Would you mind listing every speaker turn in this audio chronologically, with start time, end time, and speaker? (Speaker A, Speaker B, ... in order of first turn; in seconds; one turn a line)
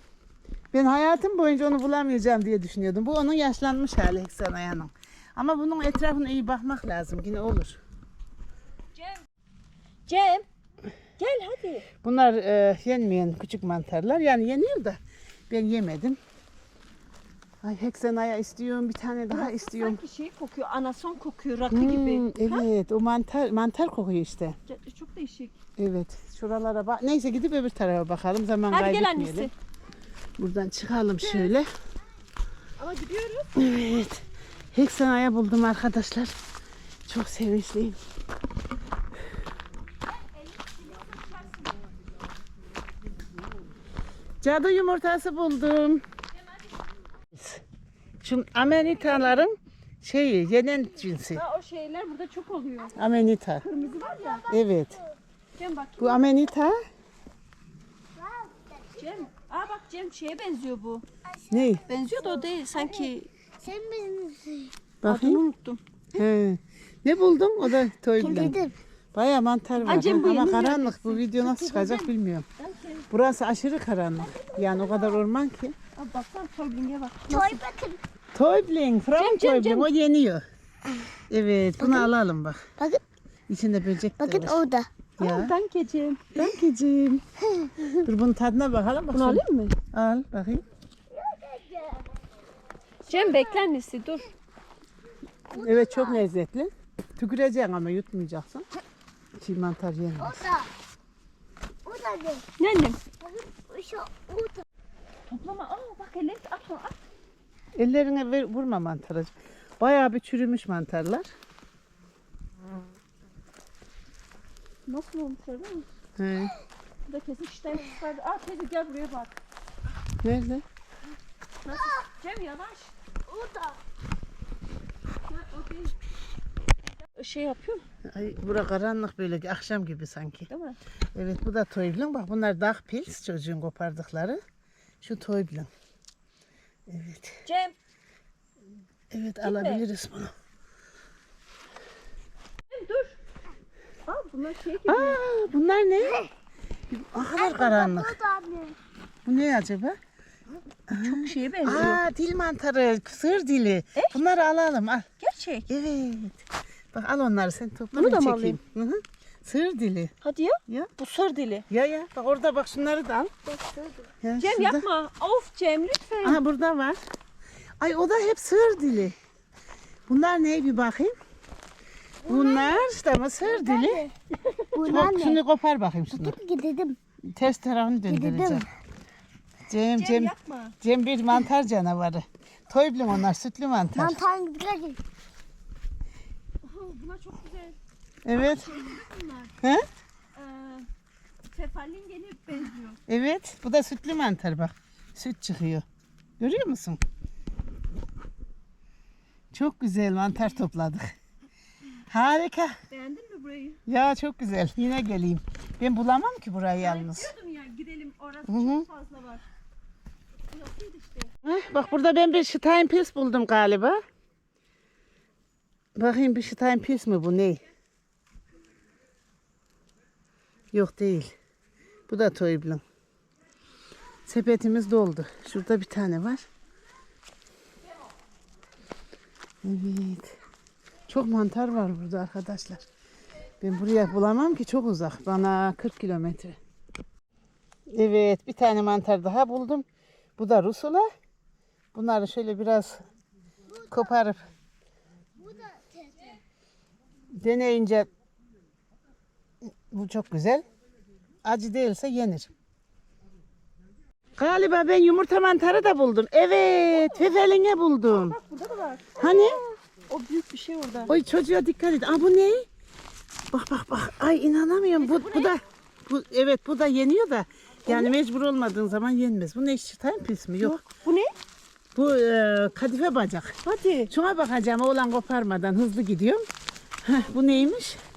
Speaker A: 0.7-7.8
Speaker B: 8.9-9.3
Speaker B: 10.1-10.5
Speaker B: 11.2-11.9
Speaker A: 12.0-15.0
Speaker A: 15.5-16.2
Speaker A: 17.6-20.0
Speaker B: 19.3-22.7
Speaker A: 21.7-24.6
Speaker B: 24.7-25.6
Speaker A: 25.8-29.5
Speaker B: 28.7-29.5
Speaker A: 30.4-31.7
Speaker B: 31.2-31.5
Speaker B: 32.8-33.5
Speaker A: 33.6-36.3
Speaker A: 37.1-38.0
Speaker B: 40.1-41.8
Speaker A: 44.4-46.0
Speaker A: 47.3-47.6
Speaker A: 48.2-51.4
Speaker B: 51.3-53.0
Speaker A: 53.0-53.6
Speaker B: 53.6-54.5
Speaker C: 53.7-55.2
Speaker A: 54.5-55.0
Speaker B: 55.6-56.3
Speaker A: 56.0-56.8
Speaker C: 58.1-59.2
Speaker B: 59.0-61.1
Speaker C: 61.2-64.7
Speaker A: 61.5-61.8
Speaker B: 61.9-63.3
Speaker A: 65.0-65.4
Speaker B: 65.1-65.8
Speaker A: 66.2-68.6
Speaker C: 68.2-68.8
Speaker A: 69.1-72.5
Speaker B: 69.8-73.1
Speaker A: 73.1-75.8
Speaker B: 74.3-75.2
Speaker B: 76.0-77.6
Speaker C: 77.3-78.0
Speaker A: 78.3-80.5
Speaker B: 79.2-79.9
Speaker A: 81.3-82.7
Speaker C: 81.8-82.1
Speaker C: 82.8-83.0
Speaker A: 83.5-84.7
Speaker C: 84.2-84.9
Speaker A: 85.2-85.5
Speaker B: 85.2-86.3
Speaker A: 86.3-87.2
Speaker C: 87.5-87.8
Speaker A: 88.0-90.6
Speaker B: 89.1-89.8
Speaker C: 91.1-92.1
Speaker C: 93.1-93.7
Speaker B: 93.1-94.3
Speaker C: 95.5-96.2
Speaker A: 95.5-98.7
Speaker A: 99.4-100.4
Speaker C: 100.2-100.7
Speaker C: 101.8-102.5
Speaker B: 102.6-103.0
Speaker C: 103.2-104.6
Speaker B: 105.3-107.0
Speaker A: 107.8-111.3
Speaker B: 114.9-115.9
Speaker A: 116.2-116.5
Speaker B: 117.1-119.3
Speaker A: 120.2-120.6
Speaker B: 121.6-122.9
Speaker C: 121.7-122.0
Speaker C: 123.3-123.8
Speaker B: 125.3-126.0
Speaker B: 127.2-127.8
Speaker A: 128.1-130.5
Speaker B: 130.5-130.8
Speaker A: 131.2-134.4
Speaker A: 135.0-135.7
Speaker A: 136.9-137.4
Speaker B: 137.4-137.8
Speaker A: 139.1-140.3
Speaker B: 139.4-139.8
Speaker B: 142.7-143.2
Speaker B: 144.1-145.2
Speaker A: 144.9-146.2
Speaker C: 146.1-146.3
Speaker A: 146.9-148.2
Speaker C: 147.4-148.8
Speaker A: 149.3-150.0
Speaker A: 150.9-155.1
Speaker B: 150.9-152.0
Speaker B: 155.2-155.7
Speaker A: 155.7-160.1
Speaker B: 157.9-158.6
Speaker B: 160.2-161.7
Speaker A: 161.7-163.3
Speaker C: 163.5-164.1
Speaker A: 164.2-164.8
Speaker B: 164.4-166.4
Speaker A: 166.2-167.0
Speaker A: 167.8-169.2
Speaker A: 170.1-171.1
Speaker A: 172.3-174.0
Speaker C: 172.3-172.8
Speaker C: 173.4-174.1
Speaker C: 174.7-175.4
Speaker A: 174.8-176.4
Speaker C: 176.2-177.0
Speaker A: 177.3-178.7
Speaker C: 178.1-178.7
Speaker A: 179.7-184.2
Speaker B: 180.0-180.8
Speaker C: 183.9-185.0
Speaker B: 186.6-187.8
Speaker A: 188.2-188.7
Speaker B: 188.3-189.5
Speaker A: 189.6-189.9
Speaker B: 190.3-190.9
Speaker B: 191.5-193.0
Speaker A: 193.1-195.9
Speaker A: 196.4-197.0
Speaker A: 199.5-201.1
Speaker A: 202.1-202.8
Speaker B: 202.9-203.8
Speaker A: 203.9-207.3
Speaker B: 206.8-209.4
Speaker A: 208.5-208.9
Speaker B: 210.5-211.3
Speaker A: 211.4-214.0
Speaker A: 215.9-217.6
Speaker A: 220.7-221.3
Speaker A: 222.1-222.8
Speaker A: 224.3-226.4
Speaker A: 229.6-230.4
Speaker A: 231.1-232.8
Speaker A: 233.6-236.6
Speaker A: 237.9-239.9
Speaker A: 240.4-241.1
Speaker A: 241.9-243.0
Speaker C: 243.7-244.1
Speaker A: 243.9-244.4
Speaker C: 245.4-246.4
Speaker A: 247.3-248.1
Speaker A: 249.6-250.7
Speaker A: 251.4-252.5
Speaker A: 254.4-258.4
Speaker B: 256.9-257.4
Speaker B: 258.1-261.1
Speaker A: 259.2-259.6
Speaker A: 261.1-262.7
Speaker A: 263.5-270.8
Speaker B: 265.0-265.6
Speaker B: 267.9-268.1
Speaker B: 270.6-271.3
Speaker A: 271.9-273.6
Speaker B: 273.6-274.1
Speaker A: 274.1-276.4
Speaker A: 277.0-278.0